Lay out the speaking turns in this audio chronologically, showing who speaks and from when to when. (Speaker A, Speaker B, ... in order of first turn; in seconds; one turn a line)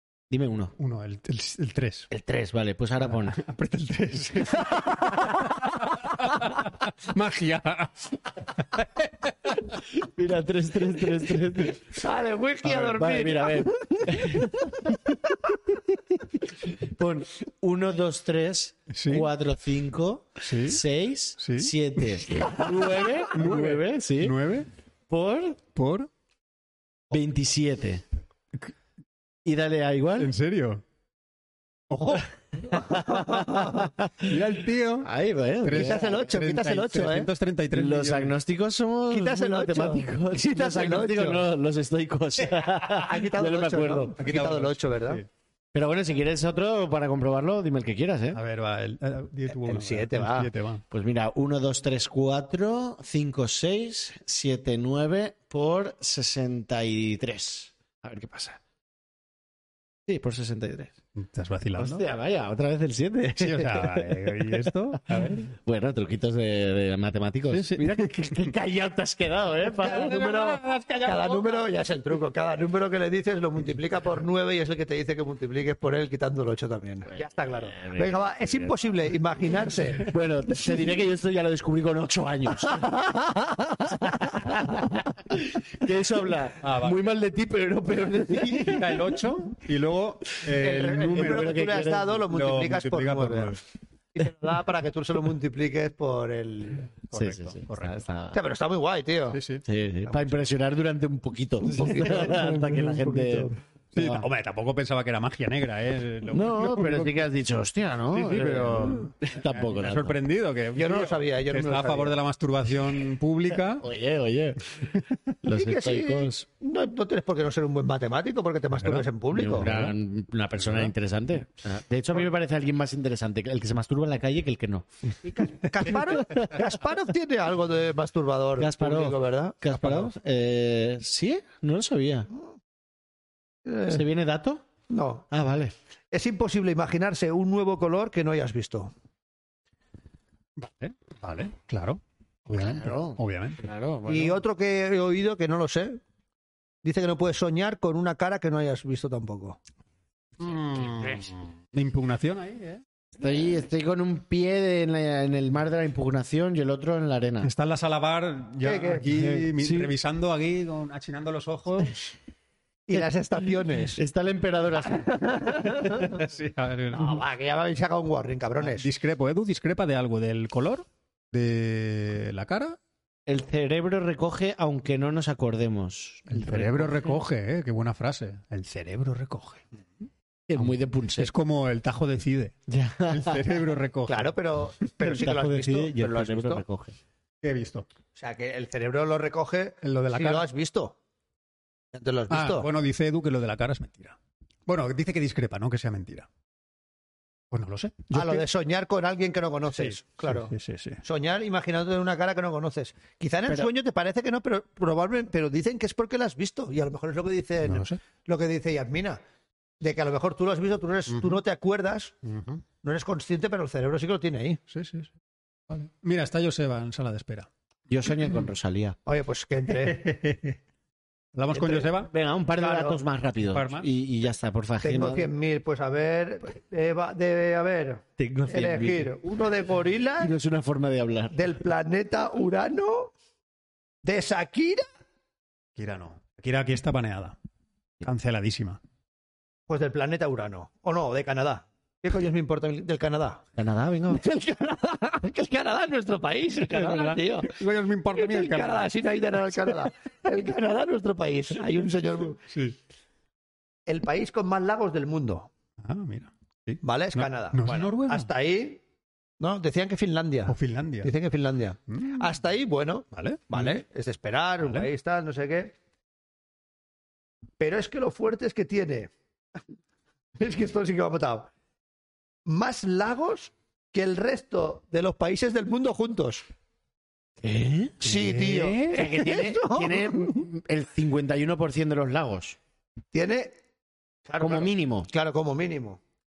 Speaker A: 0.3-0.7
Speaker B: 0.8-2.1
Speaker A: 2.1-3.4
Speaker B: 3.1-9.8
Speaker A: 10.0-12.0
Speaker C: 11.8-14.9
Speaker B: 12.6-13.3
Speaker A: 12.7-15.0
Speaker A: 15.8-24.4
Speaker B: 18.9-19.3
Speaker B: 20.4-20.8
Speaker B: 21.4-22.7
Speaker C: 22.4-22.8
Speaker B: 23.2-24.7
Speaker A: 25.1-25.6
Speaker B: 25.7-26.1
Speaker A: 27.1-28.0
Speaker A: 29.4-30.3
Speaker B: 30.2-30.8
Speaker B: 31.9-32.3
Speaker A: 32.7-34.3
Speaker C: 32.7-33.9
Speaker B: 34.2-35.1
Speaker A: 35.0-36.2
Speaker B: 35.6-38.3
Speaker C: 35.8-37.3
Speaker A: 37.7-44.1
Speaker C: 39.1-41.5
Speaker C: 42.8-45.2
Speaker B: 44.2-45.2
Speaker A: 45.7-48.4
Speaker B: 48.3-50.8
Speaker C: 49.5-50.5
Speaker A: 50.9-58.6
Speaker A: 60.1-60.9
Speaker B: 61.1-62.0
Speaker A: 61.8-70.2
Speaker B: 63.4-65.5
Speaker B: 67.5-68.1
Speaker B: 69.8-71.6
Speaker C: 69.9-80.1
Speaker A: 77.1-78.7
Speaker A: 80.1-82.9
Speaker C: 82.7-83.9
Speaker A: 83.8-89.0
Speaker B: 86.6-87.0
Speaker B: 88.4-91.7
Speaker C: 90.5-93.6
Speaker A: 91.0-92.2
Speaker B: 92.2-93.6
Speaker C: 94.1-96.9
Speaker B: 97.1-98.0
Speaker A: 97.1-98.4
Speaker C: 98.3-99.4
Speaker B: 99.3-100.4
Speaker A: 99.7-104.3
Speaker C: 101.6-103.5
Speaker B: 103.9-107.2
Speaker A: 106.3-110.2
Speaker B: 108.1-113.8
Speaker C: 110.7-112.2
Speaker A: 113.8-116.4
Speaker C: 115.5-119.7
Speaker B: 118.8-119.9
Speaker A: 119.3-125.2
Speaker B: 120.6-120.9
Speaker C: 125.2-129.8
Speaker A: 125.8-126.7
Speaker A: 128.6-132.3
Speaker B: 129.8-130.1
Speaker C: 133.6-134.0
Speaker A: 133.9-134.6
Speaker C: 134.9-135.3
Speaker A: 135.3-135.7
Speaker C: 136.1-138.9
Speaker B: 140.6-143.6
Speaker A: 142.6-144.4
Speaker C: 144.1-146.0
Speaker C: 146.8-149.6
Speaker B: 150.4-152.8
Speaker A: 153.2-157.5
Speaker B: 157.4-162.1
Speaker C: 158.6-159.1
Speaker A: 159.1-159.9
Speaker C: 162.9-164.0
Speaker A: 163.7-165.7
Speaker C: 165.1-166.1
Speaker B: 166.0-167.2
Speaker C: 166.9-168.9
Speaker B: 168.6-172.8
Speaker A: 173.3-177.1
Speaker B: 176.3-179.6
Speaker A: 180.5-181.3
Speaker B: 180.6-184.3
Speaker A: 182.7-183.4
Speaker C: 184.1-186.6
Speaker A: 185.0-187.0
Speaker B: 187.4-187.9
Speaker C: 188.2-190.9
Speaker B: 189.8-190.4
Speaker C: 191.9-192.7
Speaker B: 192.3-194.2
Speaker B: 194.7-196.3
Speaker B: 197.5-198.4
Speaker C: 198.1-200.5
Speaker B: 199.7-201.0
Speaker C: 201.0-209.2
Speaker B: 207.7-208.0
Speaker C: 209.8-212.1
Speaker B: 211.1-211.3
Speaker B: 212.2-212.6
Speaker C: 212.8-214.6
Speaker B: 214.7-215.1
Speaker B: 215.7-217.5
Speaker A: 217.9-219.0
Speaker C: 219.1-220.1
Speaker B: 219.8-220.6
Speaker B: 221.3-222.1
Speaker C: 221.5-221.8
Speaker A: 221.9-225.3
Speaker C: 222.6-223.0
Speaker B: 223.5-223.9
Speaker C: 224.8-230.3
Speaker A: 228.2-229.1
Speaker A: 230.2-231.3
Speaker C: 231.3-233.1
Speaker C: 234.0-234.8
Speaker B: 235.8-237.3
Speaker B: 238.0-238.8
Speaker C: 239.7-243.4
Speaker A: 243.6-244.2
Speaker C: 244.1-247.6
Speaker B: 246.7-248.9
Speaker C: 248.1-252.4
Speaker B: 252.5-252.8
Speaker C: 253.8-255.5
Speaker B: 255.8-258.3
Speaker C: 256.8-258.8
Speaker C: 259.4-265.7
Speaker B: 260.5-261.1
Speaker B: 261.9-262.3
Speaker B: 263.1-263.7
Speaker B: 264.6-264.9
Speaker C: 267.6-269.1
Speaker C: 270.4-271.5
Speaker C: 272.4-276.4
Speaker A: 277.4-282.6
Speaker C: 278.0-280.4
Speaker B: 278.1-278.9
Speaker C: 283.1-283.5
Speaker C: 284.3-286.0
Speaker A: 284.4-285.1